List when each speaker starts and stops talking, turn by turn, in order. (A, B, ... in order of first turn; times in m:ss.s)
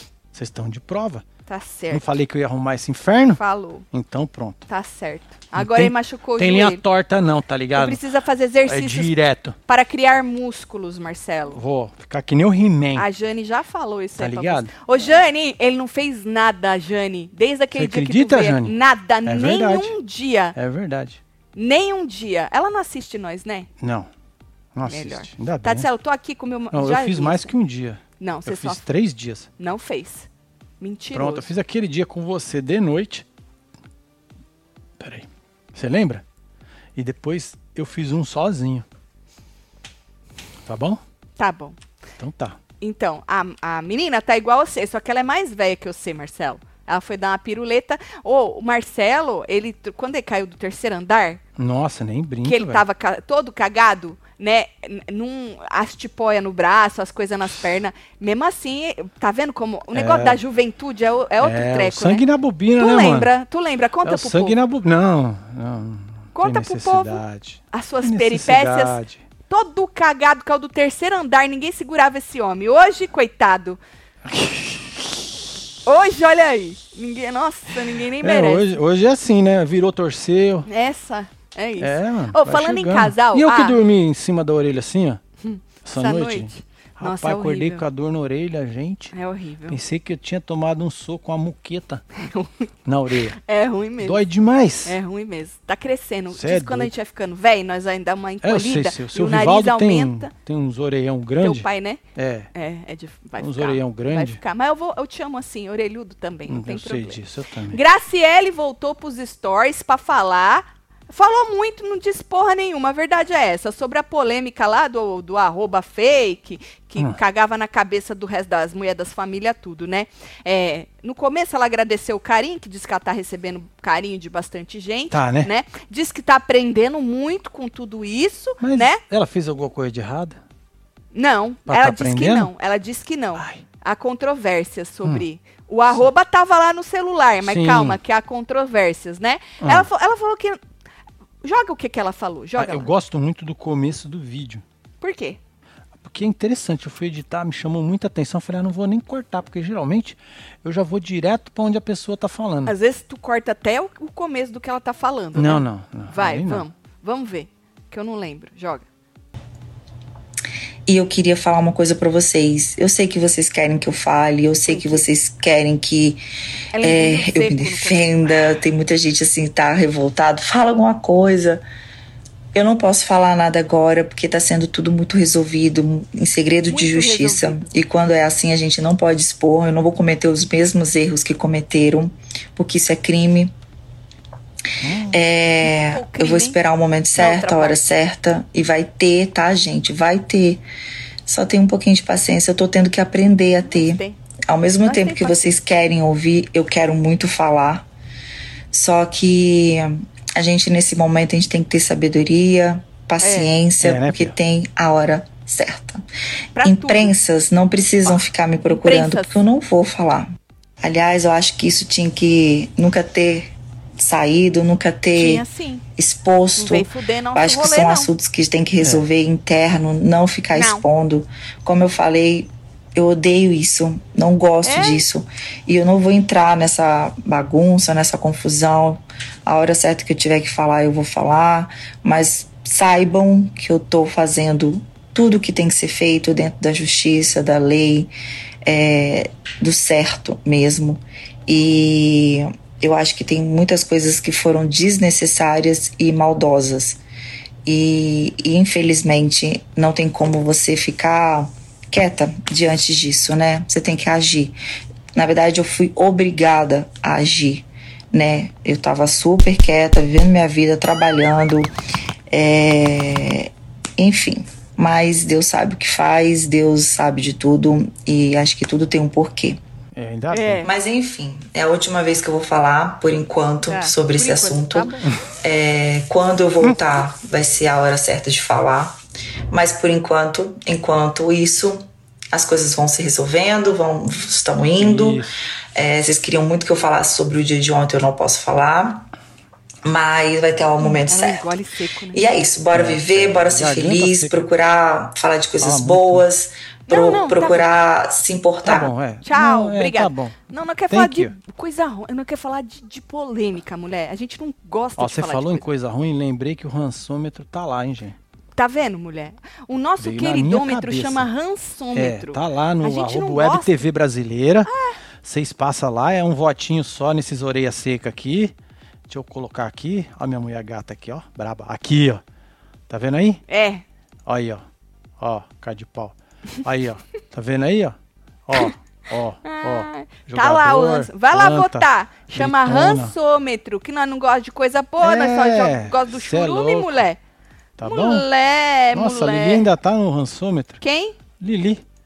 0:00.3-0:01.2 A
0:01.5-0:02.1 B
0:01.9-0:03.4 A
0:03.4-0:03.8 B
0:03.9-0:04.7 A
0:04.7-0:06.8 B
0:05.6-0:08.0 A
0:07.8-0:09.1 B
0:08.7-0:09.6 A
0:09.7-0:11.6 B
0:11.6-0:13.1 A
0:13.0-0:20.6 B
0:14.2-0:14.7 A
0:17.8-0:19.9 A
0:20.6-0:21.2 A
0:21.6-0:23.7 B
0:23.8-0:24.1 A
0:24.8-0:25.9 A
0:24.9-0:27.5 B
0:26.7-0:29.5 A
0:28.2-0:28.8 B
0:29.6-0:30.3 B
0:30.8-0:31.5 B
0:31.1-0:33.2 A
0:35.0-0:36.2 A
0:37.0-0:38.8 A
0:40.7-0:41.0 A
0:41.4-0:41.8 B
0:42.2-0:42.6 A
0:42.8-0:51.4 B
0:51.6-0:52.8 A
0:52.4-1:02.2 B
0:59.9-1:00.4 A
1:01.4-1:03.3 A
1:02.8-1:04.6 B
1:04.0-1:09.2 A
1:06.4-1:07.2 B
1:07.7-1:09.0 B
1:09.5-1:13.8 B
1:14.3-1:15.1 A
1:15.8-1:18.6 B
1:18.2-1:20.7 A
1:20.7-1:23.8 B
1:21.8-1:25.2 A
1:25.4-1:27.8 B
1:25.8-1:29.1 A
1:29.1-1:29.8 B
1:29.7-1:32.0 A
1:32.2-1:32.7 B
1:32.8-1:33.4 A
1:33.3-1:34.2 B
1:34.0-1:35.0 A
1:34.8-1:40.3 B
1:36.3-1:36.9 A
1:38.4-1:42.5 A
1:41.4-1:42.0 B
1:42.5-1:47.2 B
1:43.4-1:44.4 A
1:46.5-1:47.8 A
1:47.7-2:09.0 B
2:05.1-2:05.5 A
2:08.6-2:10.4 A
2:11.1-2:20.6 B
2:11.7-2:12.5 A
2:13.4-2:13.6 A
2:17.4-2:18.0 A
2:19.6-2:19.9 A
2:21.4-2:22.9 B
2:22.6-2:24.6 A
2:25.0-2:25.4 B
2:26.0-2:32.7 A
2:32.7-2:38.9 B
2:35.4-2:36.7 A
2:40.9-2:46.2 C
2:44.7-2:45.0 B
2:46.8-2:48.3 B
2:46.8-2:51.6 C
2:52.5-3:03.5 C
2:56.7-2:57.7 B
3:04.8-3:05.2 A
3:05.1-3:10.6 C
3:05.6-3:06.6 B
3:07.2-3:07.9 B
3:11.3-3:17.9 C
3:13.6-3:14.2 B
3:14.8-3:15.6 B
3:18.7-3:26.0 C
3:23.2-3:23.5 B
3:23.8-3:24.3 A
3:26.6-3:27.1 B
3:26.6-3:30.3 C
3:28.7-3:29.3 B
3:30.8-3:35.4 C
3:35.2-3:35.8 B
3:36.0-3:58.1 C
3:36.6-3:38.1 B
3:40.5-3:40.8 B
3:44.6-3:45.1 B
3:58.7-4:07.0 C
4:07.7-4:14.6 C
4:15.1-4:21.7 C
4:22.3-4:29.6 C
4:30.0-4:30.7 A
4:30.3-4:30.7 B
4:30.6-4:39.0 C
4:33.6-4:35.1 B
4:39.5-4:49.1 C
4:44.8-4:45.4 A
4:49.8-4:51.5 C
4:50.8-4:52.3 B
4:52.1-4:58.9 C
4:52.7-4:54.5 A
4:55.6-4:56.3 A
4:56.9-4:57.7 B
4:58.6-5:01.3 A
4:59.2-5:05.6 B
5:05.0-5:08.2 A
5:08.6-5:13.8 B
5:10.0-5:11.3 A
5:12.0-5:14.7 A
5:14.7-5:15.0 B
5:15.2-5:18.5 A
5:19.1-5:22.2 A
5:22.9-5:23.4 A
5:23.5-5:23.8 B
5:24.3-5:24.6 A
5:25.2-5:28.0 A
5:28.5-5:33.2 A
5:29.4-5:37.2 B
5:35.0-5:37.0 A
5:37.8-5:38.3 A
5:37.8-5:39.6 B
5:38.9-5:40.8 A
5:40.8-5:41.2 B
5:41.4-5:41.8 A